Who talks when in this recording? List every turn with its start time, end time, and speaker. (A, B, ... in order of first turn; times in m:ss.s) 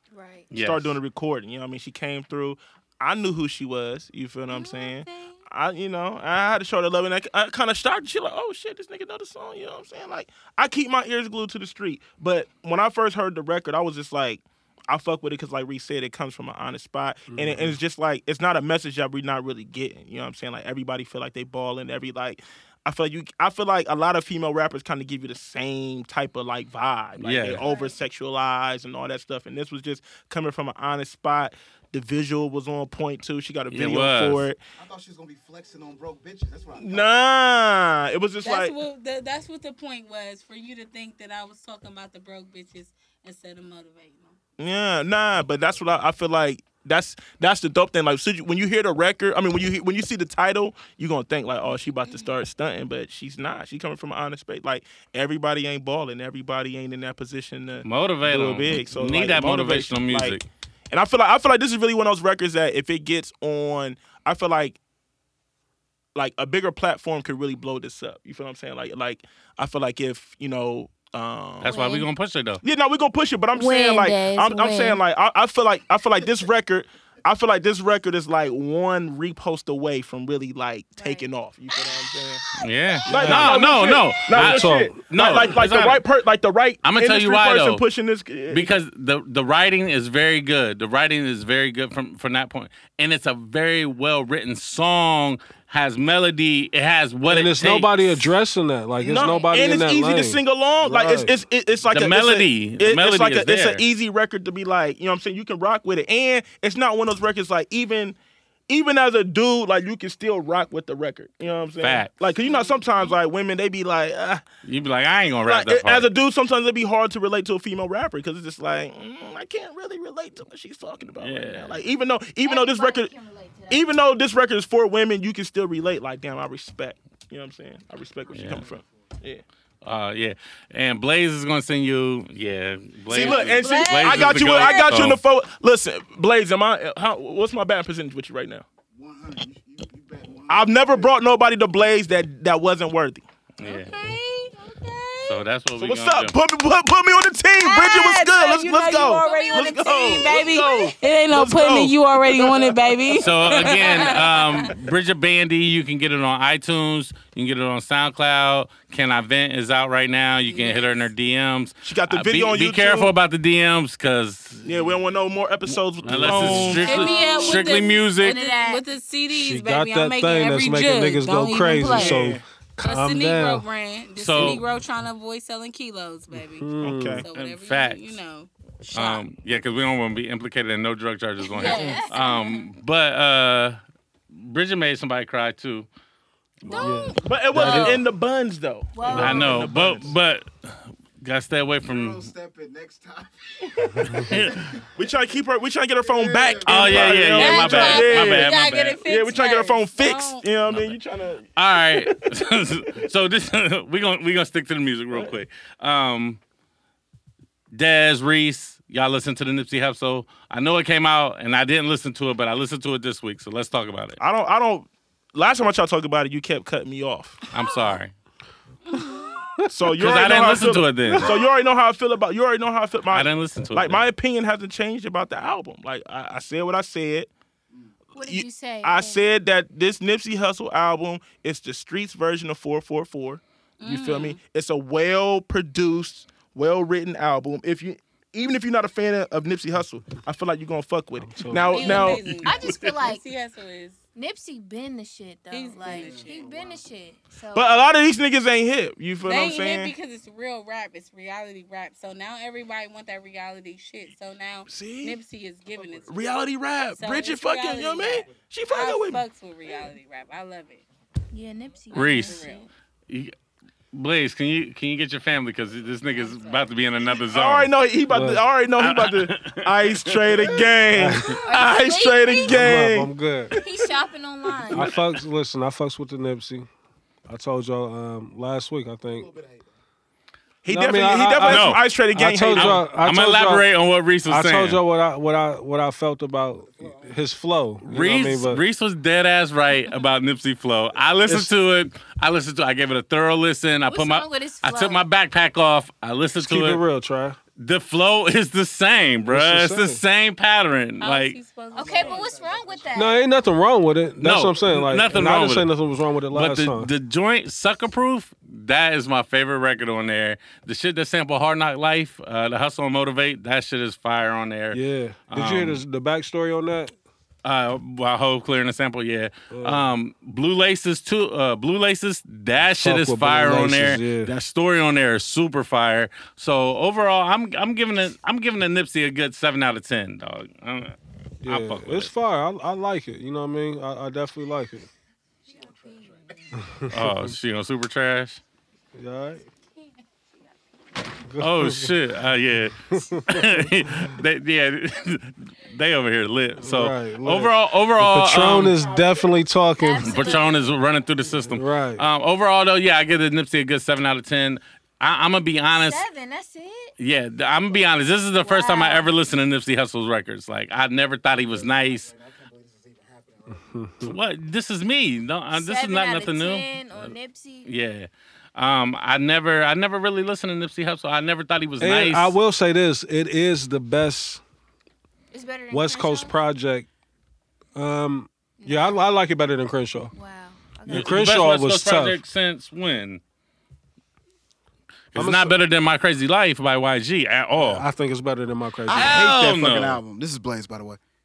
0:00.1-0:00.5 A
0:00.5-0:01.0 B
0:00.5-0:34.6 C
0:04.5-0:05.4 A
0:17.3-0:17.8 D
0:27.2-0:27.7 B
0:27.6-0:28.0 A
0:33.7-0:34.5 B
0:34.8-0:37.1 E
0:36.8-0:38.7 C
0:38.4-0:44.4 F
0:44.6-1:00.4 C
0:57.8-1:00.5 B
1:00.9-1:04.8 C
1:06.2-1:12.0 C
1:11.6-1:12.6 B
1:11.6-1:12.1 A
1:12.6-1:22.4 C
1:13.6-1:15.0 A
1:21.0-1:21.3 A
1:22.6-1:26.0 B
1:23.1-1:23.6 D
1:23.1-1:28.8 C
1:24.3-1:25.4 D
1:26.8-1:27.8 B
1:28.5-1:38.2 B
1:37.3-1:41.3 D
1:39.0-1:48.2 C
1:39.1-1:39.7 A
1:41.9-1:43.8 B
1:48.7-1:54.4 C
1:51.8-1:52.2 B
1:52.4-1:53.2 A
1:54.6-1:56.1 B
1:55.4-2:03.1 C
2:01.2-2:01.8 B
2:02.4-2:03.9 A
2:03.7-2:09.4 C
2:08.3-2:08.7 B
2:08.7-2:09.0 E
2:09.8-2:15.2 B
2:13.1-2:15.0 A
2:13.1-2:18.7 C
2:18.9-2:21.1 E
2:20.5-2:23.2 C
2:23.6-2:24.0 B
2:23.6-2:25.4 A
2:25.2-2:26.4 B
2:25.8-2:32.9 C
2:27.6-2:34.8 F
2:27.7-2:28.3 A
2:28.8-2:30.7 A
2:33.2-2:44.8 B
2:40.5-2:40.9 F
2:41.8-2:43.1 C
2:44.6-2:47.1 C
2:46.0-2:46.8 D
2:46.0-2:48.4 B
2:46.8-2:48.8 A
2:46.8-2:56.7 F
2:49.3-2:53.6 D
2:51.8-2:52.4 C
2:54.2-2:54.6 B
2:56.3-2:57.3 D
2:56.8-2:57.3 C
2:57.2-2:59.2 F
2:57.3-2:58.1 B
2:58.9-3:03.8 B
3:01.4-3:02.7 A
3:01.5-3:02.1 F
3:04.3-3:05.9 B
3:06.6-3:08.0 B
3:06.7-3:08.0 A
3:06.7-3:07.1 F
3:06.7-3:08.0 D
3:07.2-3:10.2 C
3:08.9-3:09.7 A
3:09.1-3:12.3 B
3:11.8-3:14.8 E
3:13.7-3:14.1 C
3:14.1-3:14.7 B
3:15.0-3:22.4 C
3:16.0-3:17.5 E
3:16.7-3:19.0 B
3:17.4-3:18.2 A
3:17.5-3:20.5 F
3:20.7-3:21.0 B
3:21.6-3:26.4 B
3:27.7-3:34.2 B
3:34.2-3:37.5 C
3:37.5-3:38.1 B
3:39.0-3:39.2 A
3:39.7-3:47.3 C
3:40.0-3:41.3 B
3:43.1-3:44.1 B
3:48.1-3:49.3 A
3:48.2-4:02.4 C
3:53.8-3:54.4 F
4:01.2-4:02.0 D
4:01.7-4:04.0 F
4:02.3-4:02.7 B
4:02.4-4:03.2 A
4:04.2-4:07.8 A
4:05.5-4:06.4 F
4:05.8-4:06.9 E
4:07.6-4:09.9 C
4:09.2-4:16.1 F
4:14.7-4:15.2 C
4:15.7-4:16.2 E
4:16.1-4:19.2 C
4:17.0-4:20.8 F
4:21.3-4:22.7 A
4:21.9-4:22.4 B
4:21.9-4:22.7 F
4:23.1-4:23.3 B
4:23.9-4:27.7 B
4:26.2-4:26.6 A
4:27.2-4:33.1 C
4:28.1-4:28.5 D
4:28.8-4:30.7 B
4:30.9-4:31.4 D
4:31.4-4:32.7 A
4:32.4-4:33.6 D
4:33.6-4:34.9 A
4:34.7-4:36.7 D
4:37.3-4:39.3 D
4:39.1-4:39.7 E
4:40.6-4:42.9 C
4:40.7-4:43.7 D
4:41.4-4:41.8 B
4:42.5-4:44.8 B
4:44.2-4:48.6 D
4:46.6-4:47.2 E
4:47.8-4:56.8 B
4:53.9-4:55.0 A
4:56.4-4:57.4 D
4:57.6-5:01.4 B
4:59.3-5:00.0 D
5:01.0-5:02.3 F
5:01.7-5:03.2 A
5:01.7-5:03.1 E
5:02.9-5:06.9 D
5:04.2-5:05.7 B
5:06.3-5:15.8 B
5:14.7-5:17.0 D
5:17.4-5:32.1 B
5:19.5-5:19.9 D
5:22.8-5:24.3 D
5:31.4-5:34.9 D
5:35.5-5:36.4 E
5:35.5-5:36.2 A
5:36.6-5:37.3 D
5:36.9-5:38.4 B
5:39.0-5:39.4 D
5:41.3-5:42.0 D
5:41.4-5:48.8 B
5:42.9-5:44.2 D
5:46.6-5:50.2 D
5:49.8-5:50.7 A
5:50.0-5:56.0 B
5:51.5-5:52.0 D
5:55.8-5:56.9 A
5:57.0-6:02.1 B
5:58.4-5:59.1 A
6:01.3-6:04.0 E
6:03.5-6:04.2 D
6:04.0-6:07.1 B
6:05.5-6:07.7 A
6:07.6-6:12.4 B
6:11.8-6:14.4 D
6:15.3-6:16.4 A
6:15.7-6:16.9 D
6:17.8-6:20.1 D
6:18.6-6:19.0 A
6:20.1-6:21.3 A
6:20.9-6:23.2 B
6:20.9-6:22.2 D
6:25.1-6:27.8 B
6:25.2-6:25.6 D
6:27.5-6:29.2 D
6:28.9-6:31.0 E
6:28.9-6:30.0 B